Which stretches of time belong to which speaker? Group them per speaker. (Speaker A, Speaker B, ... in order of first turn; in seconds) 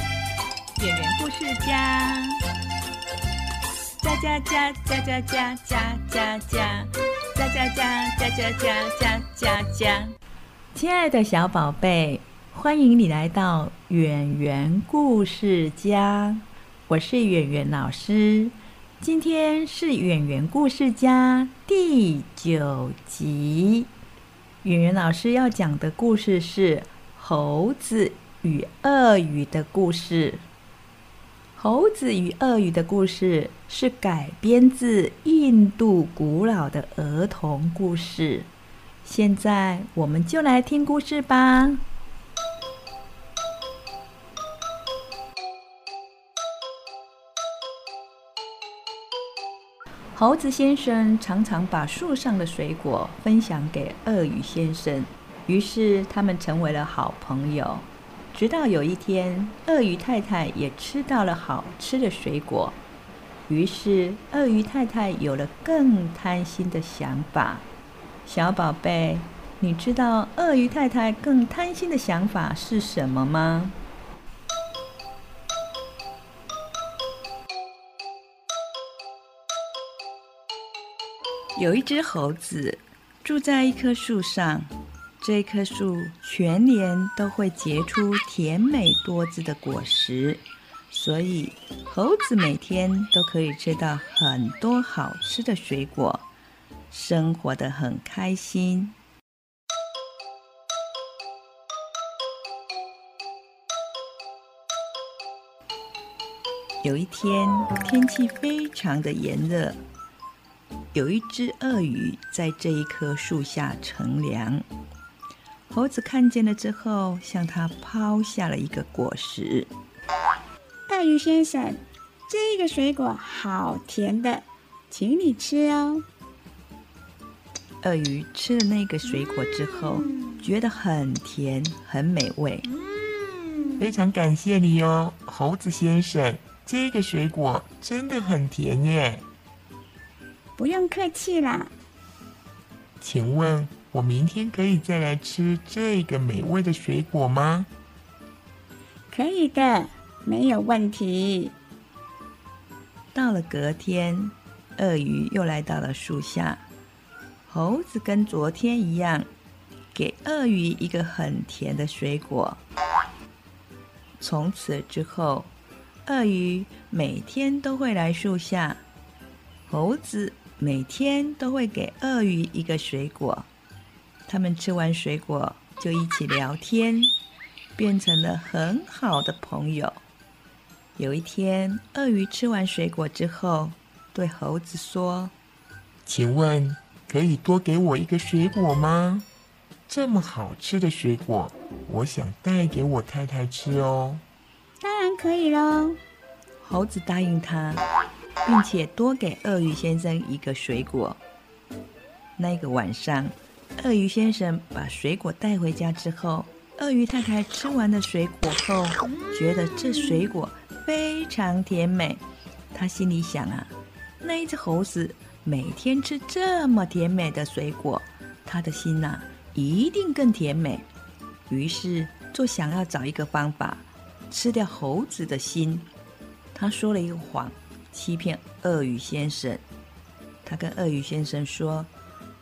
Speaker A: 0.8-2.4, 4.0-10.2, 10.7-23.9, 24.6-30.4, 31.6-38.5, 39.0-41.8, 50.1-62.8, 63.5-67.7, 68.2-73.8, 81.6-96.3, 96.9-98.9, 106.8-109.8, 110.9-114.7, 115.7-119.7, 127.8-132.7, 153.1-156.7, 157.5-159.3, 159.9-162.6, 164.2-165.5, 166.0-168.8, 169.7-173.5, 174.3-177.1, 177.8-180.0, 181.0-185.3, 196.6-197.8, 198.4-201.2, 202.4-220.8, 221.5-225.9, 226.5-229.6, 230.4-231.9
Speaker B: 120.9-126.0, 140.6-141.7, 149.1-151.6, 194.8-196.0
Speaker C: 133.8-139.2, 143.0-147.7, 186.1-189.2, 189.9-194.2